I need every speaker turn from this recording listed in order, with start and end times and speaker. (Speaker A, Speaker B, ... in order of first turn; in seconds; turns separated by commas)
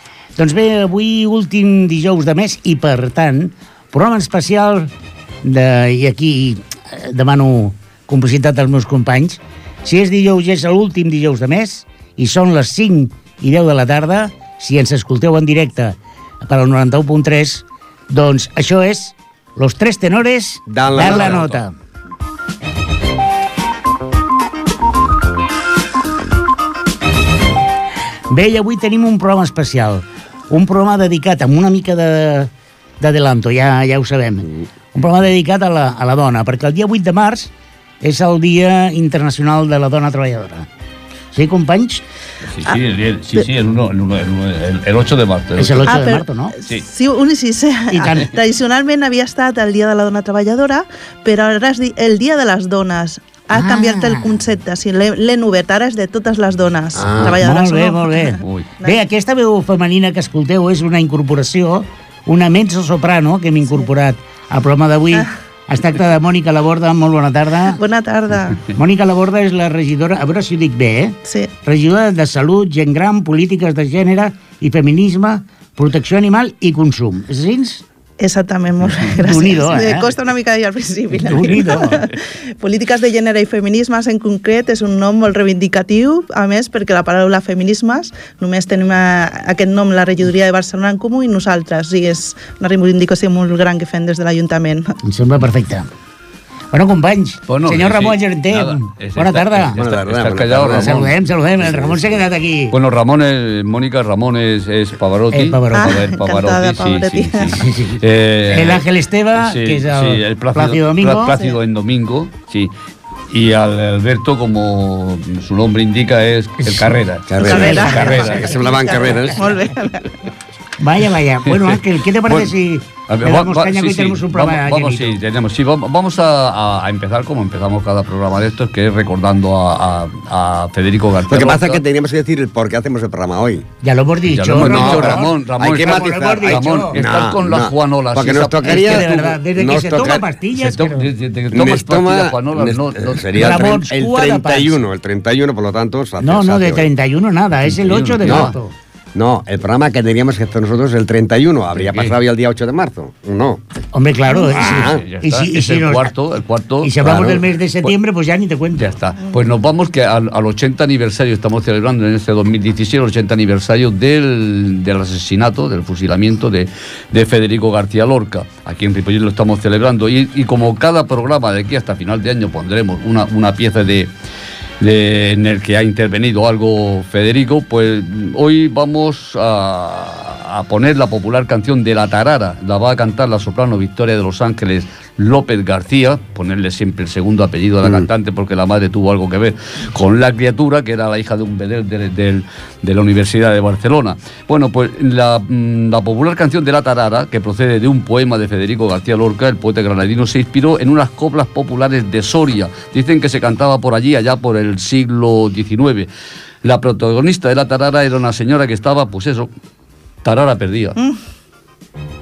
Speaker A: 0.3-4.9, Speaker A: 5.4-21.7, Speaker B: 20.7-21.5, Speaker C: 20.9-21.6, Speaker A: 28.3-40.7, Speaker A: 41.3-42.0, Speaker C: 42.5-46.0, Speaker A: 45.6-46.5, Speaker D: 45.9-59.0, Speaker A: 47.9-48.3, Speaker A: 53.5-54.4, Speaker B: 57.0-57.3, Speaker A: 57.2-67.8, Speaker C: 58.4-58.7, Speaker D: 67.7-68.6, Speaker A: 68.7-77.8, Speaker D: 71.2-71.5, Speaker D: 78.2-94.9, Speaker A: 79.0-80.1, Speaker A: 81.1-82.0, Speaker A: 95.0-95.9, Speaker A: 96.7-99.8, Speaker C: 97.5-102.0, Speaker B: 99.7-101.0, Speaker A: 100.7-102.8, Speaker C: 102.7-108.8, Speaker A: 105.3-106.0, Speaker D: 105.7-107.7, Speaker A: 107.5-111.4, Speaker C: 109.3-112.7, Speaker C: 113.3-118.6, Speaker A: 116.6-119.3, Speaker B: 117.3-119.5, Speaker D: 117.4-120.1, Speaker A: 120.8-125.2, Speaker C: 121.5-122.5, Speaker C: 123.1-131.8, Speaker B: 131.3-133.6, Speaker A: 133.8-137.0, Speaker C: 134.3-139.1, Speaker B: 134.5-140.2, Speaker A: 138.6-141.1, Speaker C: 140.7-143.8, Speaker B: 141.5-146.9, Speaker A: 143.3-144.8, Speaker A: 146.2-148.7, Speaker C: 147.7-148.6, Speaker B: 148.2-148.5, Speaker B: 149.1-153.6, Speaker C: 151.7-152.2, Speaker A: 153.9-156.1, Speaker B: 154.5-155.0, Speaker C: 154.8-157.9, Speaker A: 156.8-158.9, Speaker C: 158.7-174.1, Speaker C: 174.8-206.1, Speaker C: 206.6-209.5, Speaker C: 210.2-211.0